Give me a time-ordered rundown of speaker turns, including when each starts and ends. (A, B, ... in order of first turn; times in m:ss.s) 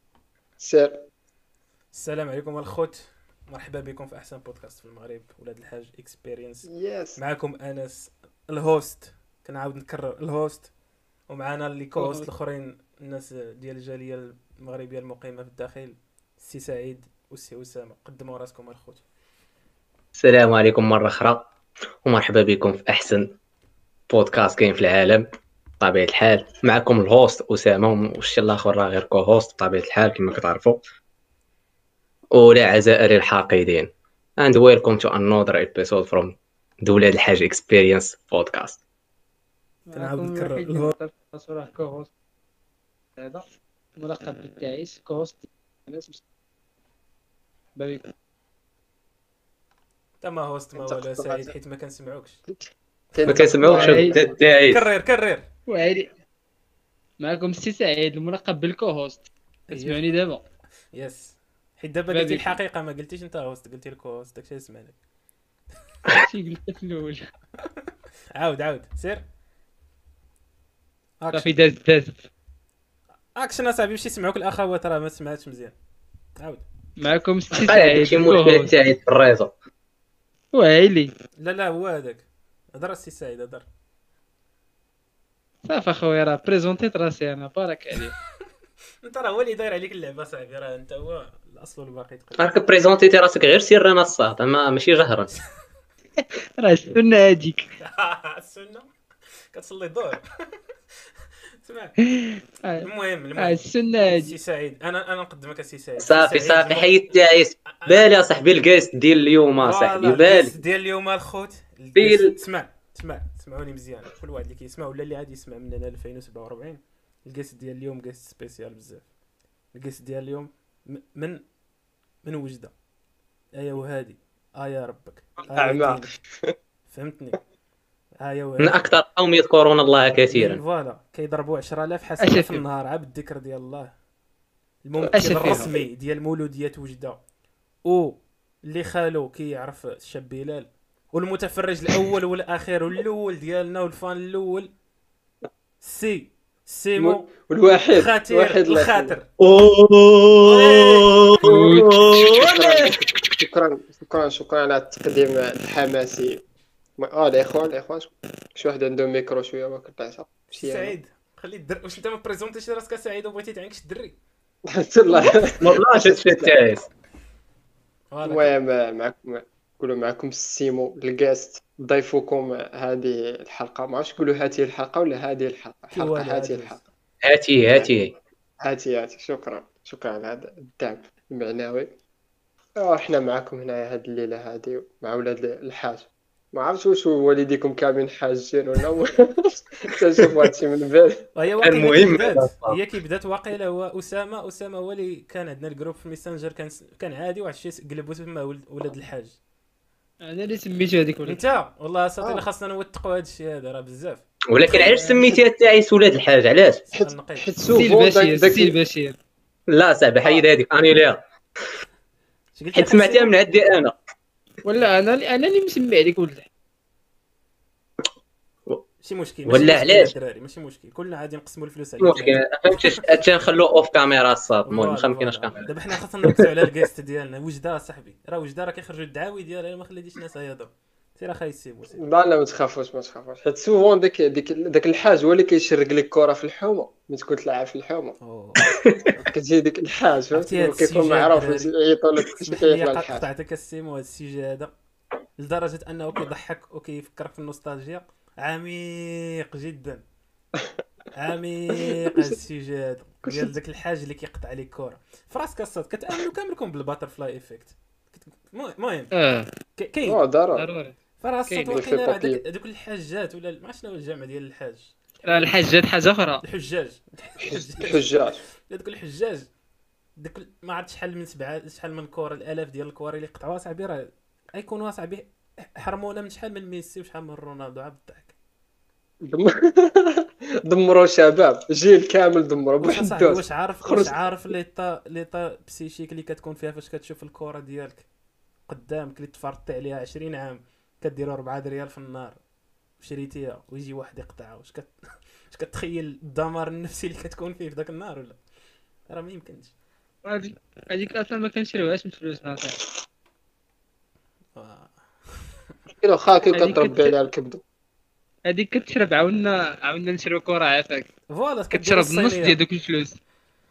0:00.6-0:01.0 A
0:01.9-0:10.7 B
0:06.7-0:07.2 A
0:11.3-0:19.0 B
0:12.0-0:12.3 C
0:20.2-0:21.5 D
0:22.0-0:23.3 D
0:24.1-0:25.2 D
0:25.8-0:30.8 D
0:32.3-0:38.8 D
0:39.8-0:42.1 C
0:39.9-0:40.9 B
0:43.2-0:46.2 C
0:47.8-0:48.1 C
0:50.2-0:52.4 B
0:50.7-0:51.5 A
0:52.5-0:54.4 A
0:53.2-0:54.8 D
0:53.6-0:54.2 C
0:54.7-0:55.4 B
0:55.7-0:56.1 C
0:57.2-1:00.4 C
0:59.7-1:00.1 B
1:00.9-1:05.0 B
1:02.1-1:02.6 C
1:06.1-1:07.2 C
1:08.4-1:09.2 B
1:11.2-1:11.5 B
1:11.3-1:12.3 C
1:13.4-1:15.8 B
1:16.4-1:16.6 B
1:17.0-1:18.7 C
1:17.5-1:19.5 D
1:20.5-1:21.1 C
1:21.4-1:23.6 B
1:25.6-1:28.1 C
1:29.0-1:32.6 B
1:32.4-1:35.3 D
1:36.6-1:37.7 C
1:37.8-1:38.9 B
1:39.5-1:40.2 B
1:41.6-1:42.0 B
1:42.2-1:44.3 C
1:42.8-1:46.9 B
1:46.0-1:50.5 D
1:47.7-1:48.0 B
1:49.6-1:59.1 B
1:51.9-1:52.3 D
1:59.7-2:01.4 B
2:02.2-2:02.7 B
2:03.5-2:06.1 B
2:05.5-2:06.5 A
2:06.9-2:07.4 B
2:08.2-2:08.8 B
2:08.6-2:10.6 D
2:10.3-2:13.9 B
2:12.2-2:12.6 C
2:14.8-2:17.2 B
2:15.1-2:15.7 C
2:17.8-2:24.7 B
2:25.8-2:27.3 B
2:27.0-2:29.2 A
2:27.9-2:29.3 B
2:29.4-2:33.0 D
2:30.4-2:31.4 B
2:31.4-2:31.8 C
2:32.1-2:36.4 A
2:37.0-2:40.9 A
2:40.5-2:44.2 B
2:44.7-2:46.6 A
2:45.3-2:46.8 D
2:48.1-2:48.5 B
2:48.2-2:56.8 A
2:55.9-2:56.8 B
2:57.2-2:58.1 D
2:58.6-3:01.9 A
3:02.8-3:11.3 A
3:11.3-3:19.4 B
3:11.6-3:12.8 D
3:20.2-3:21.4 C
3:21.2-3:24.2 B
3:24.5-3:26.8 D
3:24.7-3:25.2 C
3:26.9-3:27.6 B
3:26.9-3:28.7 A
3:27.7-3:29.1 C
3:29.7-3:31.2 D
3:32.5-3:33.3 B
3:32.7-3:34.0 D
3:34.6-3:36.5 C
3:39.0-3:43.2 B
3:39.4-3:40.1 D
3:42.0-3:45.7 D
3:44.6-3:52.0 B
3:52.0-4:03.3 A
3:58.2-3:59.3 B
4:00.3-4:01.7 B
4:02.3-4:04.7 B
4:05.4-4:10.0 B
4:11.2-4:19.1 B
4:12.1-4:12.3 A
4:19.1-4:19.5 C
4:19.8-4:20.2 B
4:20.0-4:20.6 A
4:20.5-4:20.9 C
4:21.2-4:25.7 B
4:21.5-4:21.8 C
4:21.6-4:22.4 A
4:25.2-4:26.4 C
4:26.4-4:29.5 B
4:27.4-4:28.4 A
4:30.2-4:35.2 B
4:35.8-4:38.3 B
4:39.2-4:44.2 A
4:42.8-4:48.0 B
4:48.7-4:52.4 B
4:53.0-4:58.4 B
4:59.1-4:59.7 B
5:00.2-5:02.9 C
5:04.6-5:05.5 B
5:05.9-5:07.6 A
5:06.5-5:07.2 C
5:08.5-5:11.1 C
5:11.3-5:12.6 B
5:11.7-5:13.2 C